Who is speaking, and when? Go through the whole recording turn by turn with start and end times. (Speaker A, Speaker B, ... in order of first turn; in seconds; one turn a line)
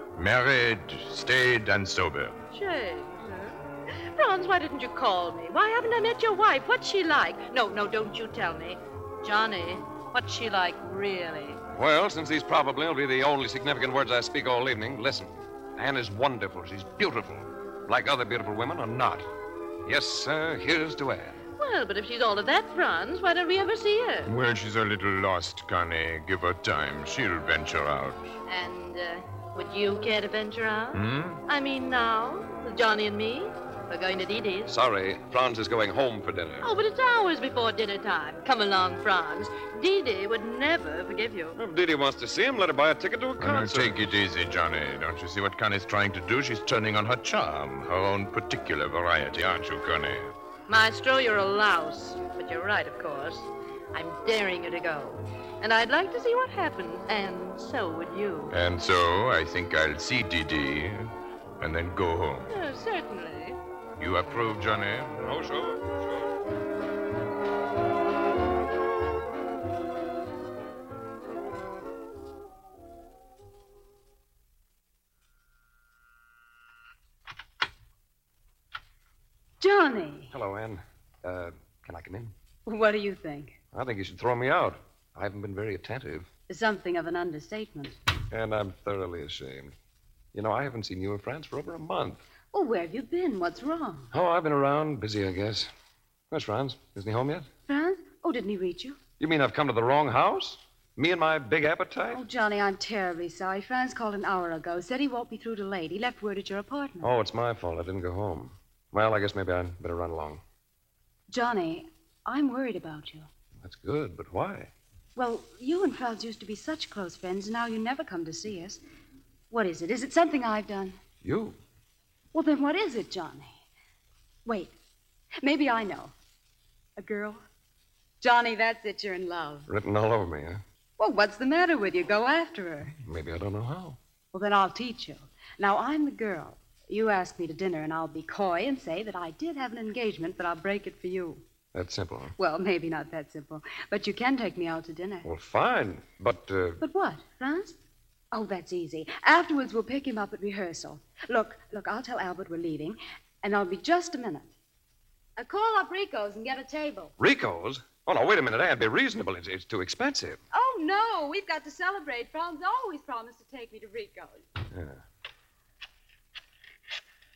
Speaker A: 0.1-2.4
Speaker B: 2.5-11.6
Speaker C: 11.7-19.3
Speaker C: 19.8-21.4
Speaker B: 21.6-24.3
Speaker A: 24.2-28.2
Speaker B: 28.5-34.7
Speaker A: 30.9-31.4
Speaker C: 34.7-36.7
Speaker B: 36.6-41.5
Speaker C: 41.5-44.0
Speaker A: 43.4-50.3
Speaker B: 50.7-58.5
Speaker A: 58.5-62.5
Speaker B: 62.5-63.6
Speaker A: 64.0-65.5
Speaker C: 65.3-65.8
Speaker D: 79.6-80.3
Speaker C: 80.3-82.3
Speaker D: 82.7-83.5
Speaker C: 83.7-86.3
Speaker D: 86.5-88.0
Speaker C: 88.3-89.7
Speaker C: 90.3-92.2
Speaker D: 92.5-94.1
Speaker C: 94.1-95.7
Speaker C: 96.3-97.5
Speaker D: 97.7-99.0
Speaker C: 99.2-102.2
Speaker D: 102.1-107.1
Speaker C: 107.0-110.4
Speaker D: 111.3-113.3
Speaker C: 113.6-114.7
Speaker D: 115.2-118.8
Speaker D: 119.5-121.0
Speaker C: 121.2-121.6
Speaker D: 122.3-123.6
Speaker D: 124.5-124.7
Speaker D: 125.4-126.1
Speaker D: 127.0-127.4
Speaker D: 128.2-129.7
Speaker C: 129.7-130.6
Speaker D: 131.0-132.9
Speaker C: 133.0-134.0
Speaker D: 134.3-141.4
Speaker C: 141.7-142.3
Speaker D: 142.4-145.3
Speaker C: 145.2-146.8
Speaker D: 146.8-147.8
Speaker D: 148.3-154.5
Speaker D: 155.4-157.1
Speaker C: 157.2-160.4
Speaker D: 160.5-164.4
Speaker C: 164.7-165.0